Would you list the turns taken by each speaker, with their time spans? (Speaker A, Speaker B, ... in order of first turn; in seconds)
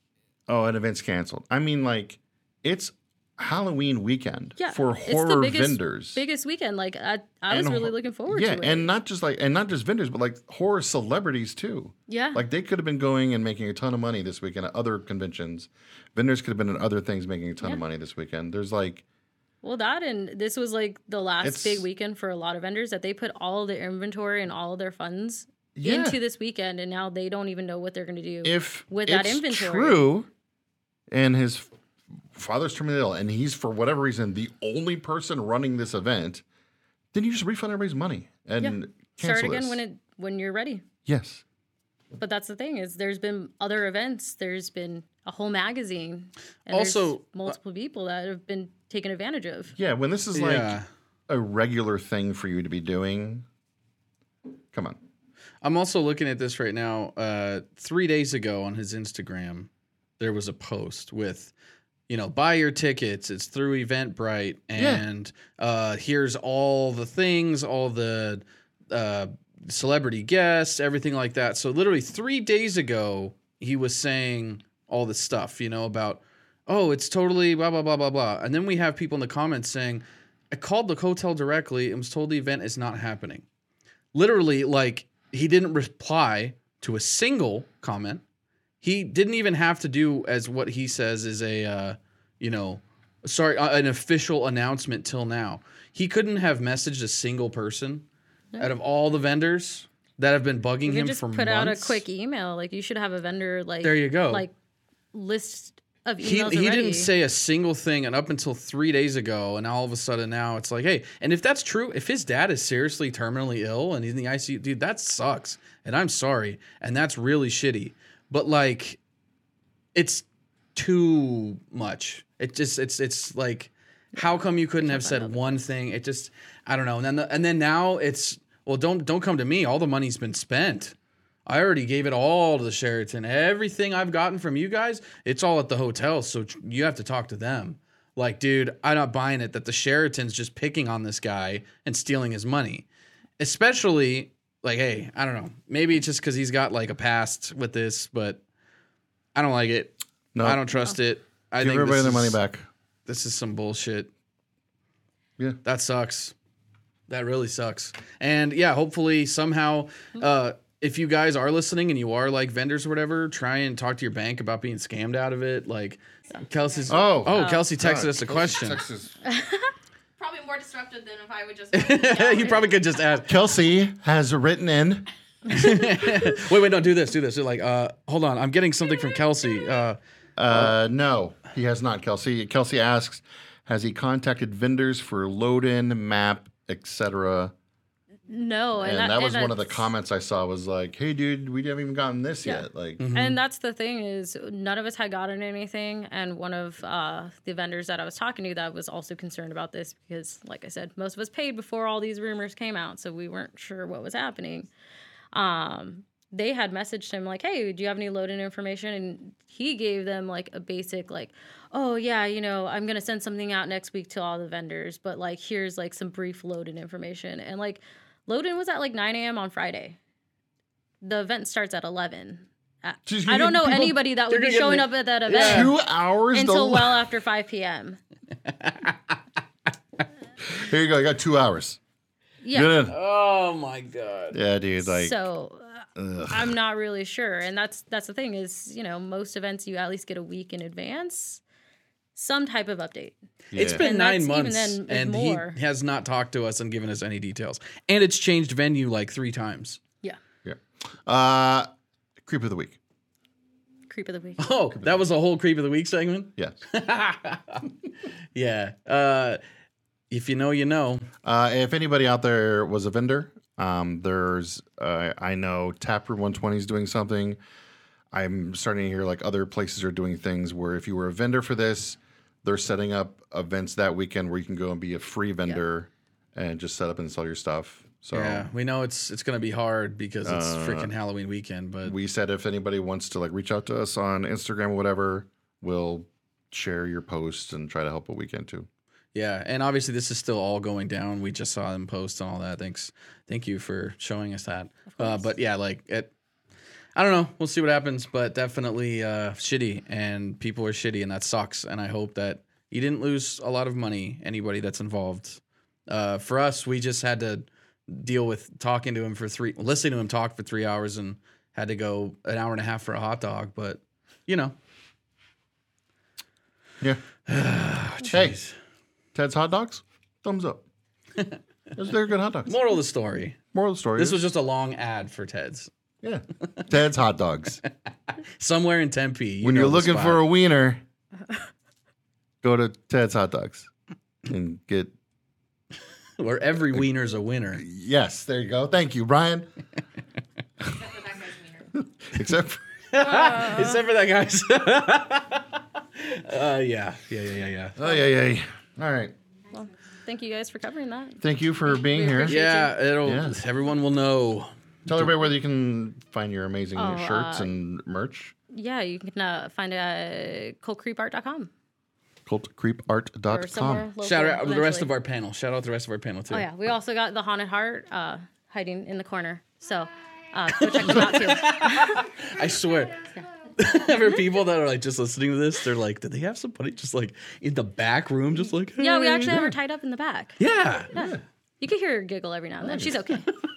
Speaker A: 0.5-6.2, 7.5-19.0, 21.4-21.9, 25.8-26.2, 28.4-30.3, 31.1-31.7, 32.3-36.4, 37.1-39.8, 41.1-41.4, 49.8-53.5, 54.7-55.0, 64.8-65.0, 150.3-150.6, 151.6-152.7, 166.9-169.1, 173.3-175.1, 180.4-187.5, 188.8-193.0, 223.1-224.0, 225.3-227.1, 230.5-231.8, 232.5-233.0, 234.3-235.2, 236.0-236.6, 243.5-243.8, 250.4-251.7, 252.2-252.8, 261.2-267.4, 268.1-278.5, 280.2-280.9, 281.9-288.7, 318.1-318.4, 319.1-320.6, 321.8-322.6, 323.5-324.2, 326.0-327.6, 329.4-330.8, 332.4-333.7, 334.2-334.9, 337.6-339.5, 341.8-342.6, 347.8-349.1, 351.2-352.4, 353.0-353.4, 354.9-358.3, 362.3-363.9, 379.2-379.6, 380.9-381.2, 382.6-383.0
Speaker B: 4.6-8.9, 12.1-12.4, 19.6-30.0, 38.6-40.9, 42.2-49.7, 100.8-104.5, 105.1-107.1, 124.2-125.4, 167.3-167.7, 169.2-169.7, 188.3-189.9, 192.4-204.7, 205.3-220.0, 221.0-225.7, 226.3-228.0, 232.4-232.8, 234.8-241.4, 242.2-245.6, 253.9-254.5, 294.9-295.3, 343.0-343.8, 349.5-352.8, 356.8-357.5, 358.5-361.5, 363.3-364.9, 366.3-372.1, 378.8-383.3
Speaker C: 46.7-47.6, 50.4-50.9, 55.6-61.5, 62.1-83.5, 84.1-88.2, 88.8-98.0, 98.6-102.0, 103.8-104.5, 106.2-119.0, 120.0-130.9, 131.5-142.8, 143.4-148.4, 149.3-152.4, 153.1-154.1, 155.6-156.3, 157.1-168.8, 171.7-173.3, 175.5-180.0, 193.0-193.4, 224.3-225.7, 228.5-229.0, 232.9-234.4, 243.5-249.8, 254.4-257.7, 258.4-259.4, 260.1-261.1, 278.1-281.9, 289.1-296.1, 297.0-314.6, 317.3-318.5, 322.5-323.4, 324.0-325.7, 328.4-330.2, 336.2-337.6, 342.9-347.8, 352.2-355.1, 364.0-366.5, 370.6-373.0, 373.6-379.4, 380.4-380.9
Speaker D: 170.2-172.7, 340.8-341.7